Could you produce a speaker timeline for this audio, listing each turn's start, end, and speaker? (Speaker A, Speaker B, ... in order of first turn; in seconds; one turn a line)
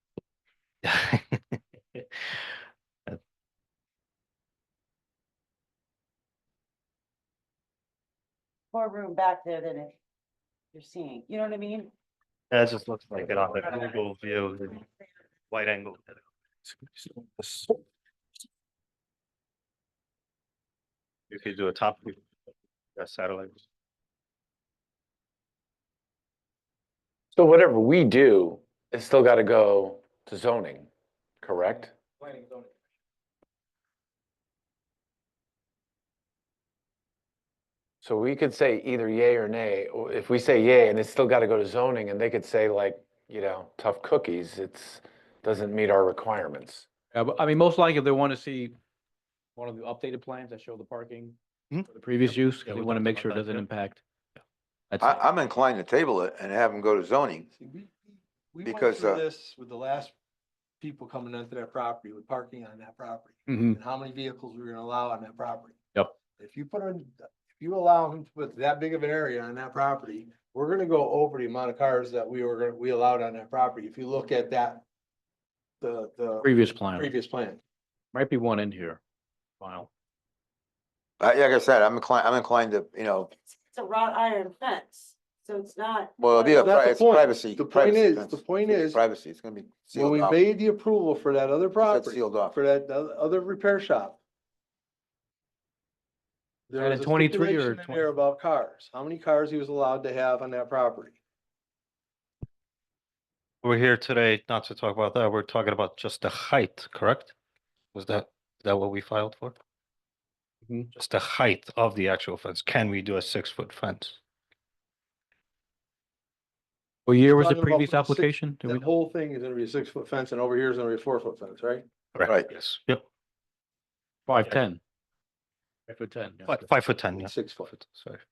Speaker A: 0.8-2.0
Speaker B: 8.7-9.9
Speaker B: 10.7-11.9
Speaker A: 12.5-14.9
Speaker A: 15.5-16.2
Speaker A: 21.3-22.2
Speaker A: 23.0-23.6
Speaker C: 27.4-30.9
Speaker C: 31.4-31.9
Speaker D: 32.2-32.7
Speaker C: 38.0-46.9
Speaker D: 47.1-48.8
Speaker D: 49.6-54.0
Speaker A: 51.7-53.6
Speaker D: 54.9-55.2
Speaker E: 55.0-57.5
Speaker F: 57.6-60.1
Speaker E: 58.6-59.2
Speaker F: 60.8-65.8
Speaker D: 63.5-63.8
Speaker F: 66.4-74.8
Speaker F: 75.8-77.6
Speaker D: 76.4-77.1
Speaker D: 78.1-79.0
Speaker D: 79.6-79.9
Speaker E: 81.2-83.3
Speaker B: 83.7-86.6
Speaker E: 86.2-90.4
Speaker F: 86.7-89.0
Speaker F: 90.0-94.2
Speaker E: 91.8-92.6
Speaker F: 96.7-101.2
Speaker D: 96.7-98.0
Speaker A: 103.6-107.3
Speaker A: 107.9-109.6
Speaker A: 111.0-114.2
Speaker D: 117.1-118.8
Speaker F: 117.2-121.8
Speaker A: 122.2-123.0
Speaker D: 124.3-124.8
Speaker D: 125.9-126.5
Speaker A: 126.5-128.2
Speaker F: 127.2-127.7